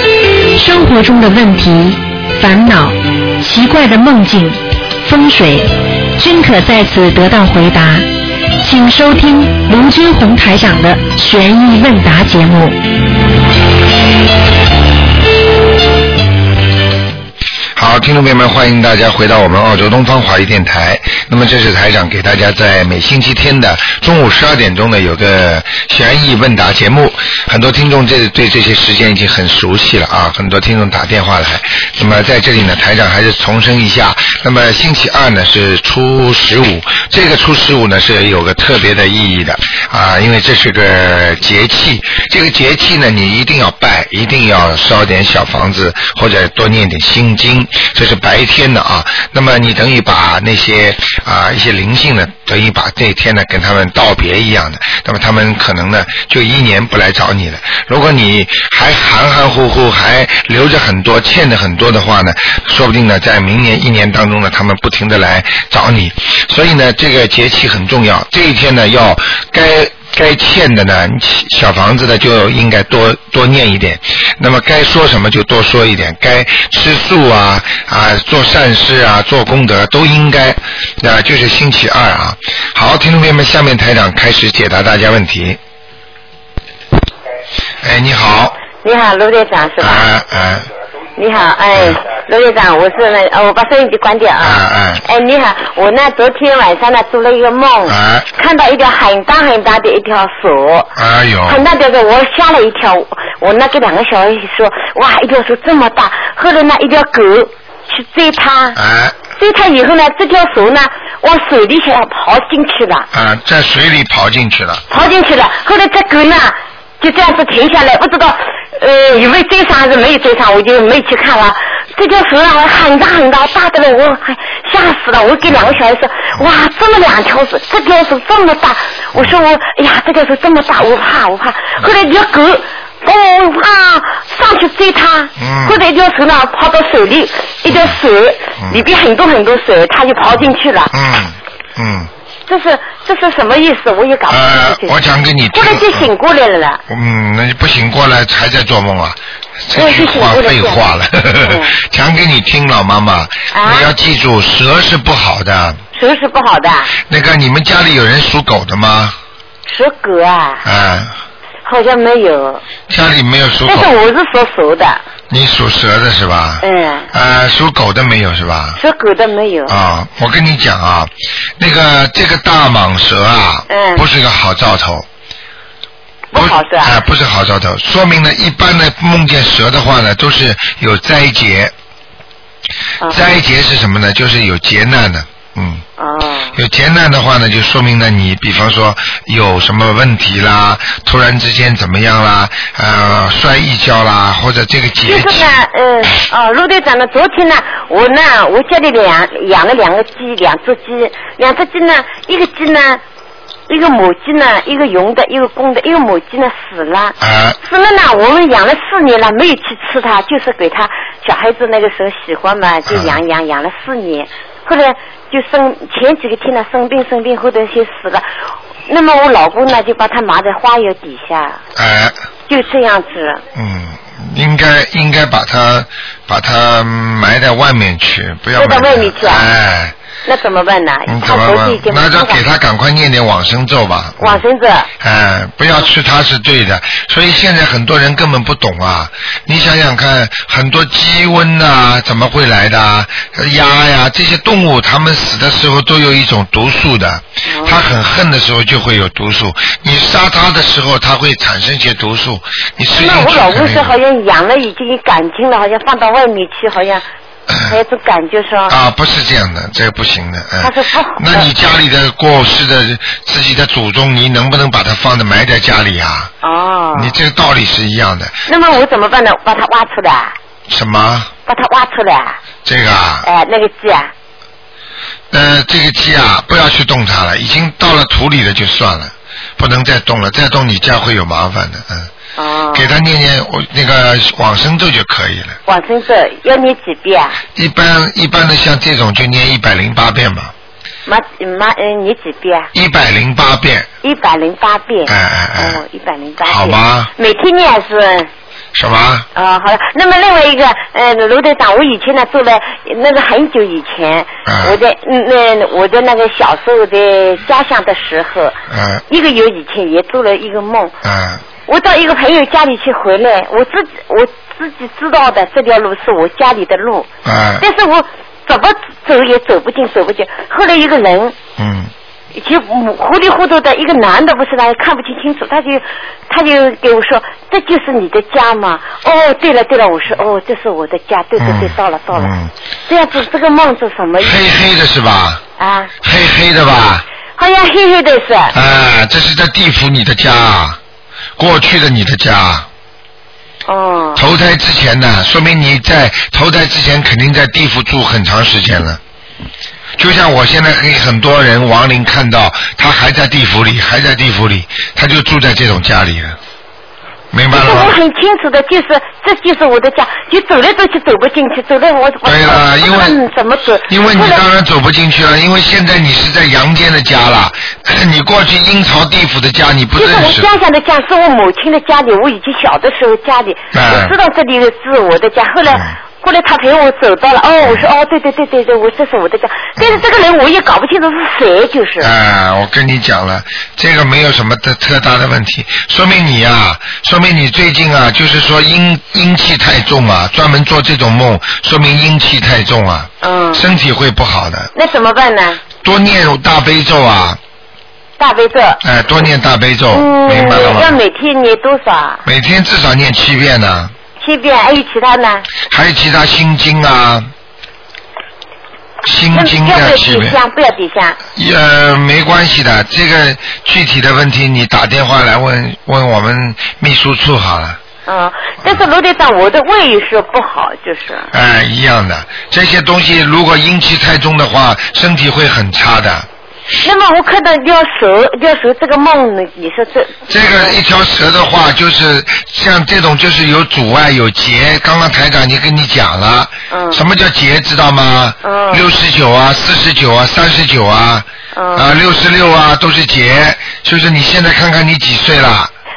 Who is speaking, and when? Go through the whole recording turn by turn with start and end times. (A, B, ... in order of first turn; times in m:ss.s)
0:00.6-0:08.1 A
0:08.6-0:12.8 A
0:17.8-1:25.6 B
1:27.8-1:28.6 B
1:28.8-1:30.1 C
1:29.8-1:30.7 B
1:31.2-1:41.0 C
1:31.7-1:32.0 B
1:34.4-1:35.0 B
1:37.9-1:38.3 B
1:41.0-1:41.6 B
1:41.5-1:48.8 C
1:48.8-1:49.2 B
1:49.4-1:53.1 C
1:53.1-1:54.8 B
1:54.9-2:20.9 C
2:05.5-2:05.8 B
2:15.4-2:15.8 B
2:17.7-2:18.0 B
2:20.9-2:22.1 B
2:22.5-2:25.0 C
2:24.3-2:26.1 B
2:25.5-2:26.8 C
2:26.9-2:35.8 B
2:29.7-2:30.8 C
2:31.4-2:31.7 C
2:33.5-2:33.9 C
2:35.9-2:36.9 C
2:37.1-2:39.2 B
2:39.7-2:40.6 C
2:40.6-2:41.1 B
2:41.6-2:42.6 C
2:42.9-2:44.0 B
2:43.7-2:45.0 C
2:45.3-2:48.8 B
2:46.6-2:47.1 C
2:48.8-2:49.8 C
2:49.7-2:55.1 B
2:53.7-2:54.0 C
2:56.3-2:57.0 C
2:56.3-3:01.7 B
3:03.0-3:03.3 C
3:03.1-3:05.8 B
3:06.0-3:06.6 C
3:06.6-3:15.6 B
3:15.0-3:23.0 C
3:23.7-3:38.3 C
3:27.2-3:27.6 B
3:32.9-3:33.2 B
3:38.9-3:41.6 C
3:41.8-3:42.2 B
3:42.5-3:43.4 C
3:43.5-3:49.9 B
3:48.6-3:49.5 C
3:50.2-3:52.4 C
3:51.1-3:54.4 B
3:54.2-3:54.9 C
3:55.0-4:13.9 B
4:07.5-4:07.8 C
4:12.9-4:17.0 C
4:17.5-4:17.8 B
4:17.7-4:18.7 C
4:18.7-4:26.3 B
4:20.6-4:21.5 C
4:26.4-4:27.2 C
4:26.9-4:28.4 B
4:28.5-4:30.4 C
4:30.7-4:31.3 B
4:31.5-4:32.4 C
4:32.6-4:33.3 B
4:33.2-4:34.1 C
4:35.3-4:42.1 B
4:42.4-4:42.9 C
4:42.7-4:45.6 B
4:45.7-4:47.4 C
4:47.6-4:50.5 B
4:51.1-4:52.7 C
4:52.7-4:53.9 B
4:54.0-4:58.3 C
4:55.1-4:55.8 B
4:56.4-4:57.1 B
4:58.7-4:59.3 B
4:59.4-5:08.6 C
5:04.5-5:04.8 B
5:08.7-5:09.0 B
5:09.1-5:11.0 C
5:11.0-5:11.4 B
5:11.7-5:17.1 C
5:17.2-5:17.6 B
5:17.6-5:21.4 C
5:21.6-5:21.9 B
5:22.4-5:32.3 C
5:31.4-5:32.5 B
5:32.9-5:34.4 C
5:34.2-5:35.4 B
5:35.6-5:35.9 C
5:36.0-5:37.0 B
5:37.4-5:38.6 C
5:38.5-5:40.8 B
5:41.4-5:42.7 B
5:43.7-5:44.2 C
5:44.2-5:49.0 B
5:50.0-5:56.4 B
5:57.3-5:58.0 B
5:57.5-6:04.4 C
6:02.2-6:03.2 B
6:03.9-6:10.5 B
6:10.0-6:22.1 C
6:13.7-6:14.2 B
6:15.7-6:16.0 B
6:17.6-6:17.9 B
6:22.0-6:34.7 B
6:33.2-6:33.6 C
6:34.8-6:35.6 C
6:35.8-6:37.4 B
6:38.2-6:38.8 C
6:38.8-6:41.0 B
6:39.9-6:42.2 C
6:42.2-6:43.9 B
6:44.2-6:45.5 C
6:45.7-6:47.3 B
6:49.0-6:50.4 B
6:49.3-6:51.2 C
6:51.4-6:57.8 B
6:58.1-7:01.3 C
7:01.3-7:06.3 B
7:06.8-7:10.8 C
7:10.3-7:25.7 B
7:16.7-7:17.0 C
7:18.4-7:18.8 C
7:21.6-7:21.9 C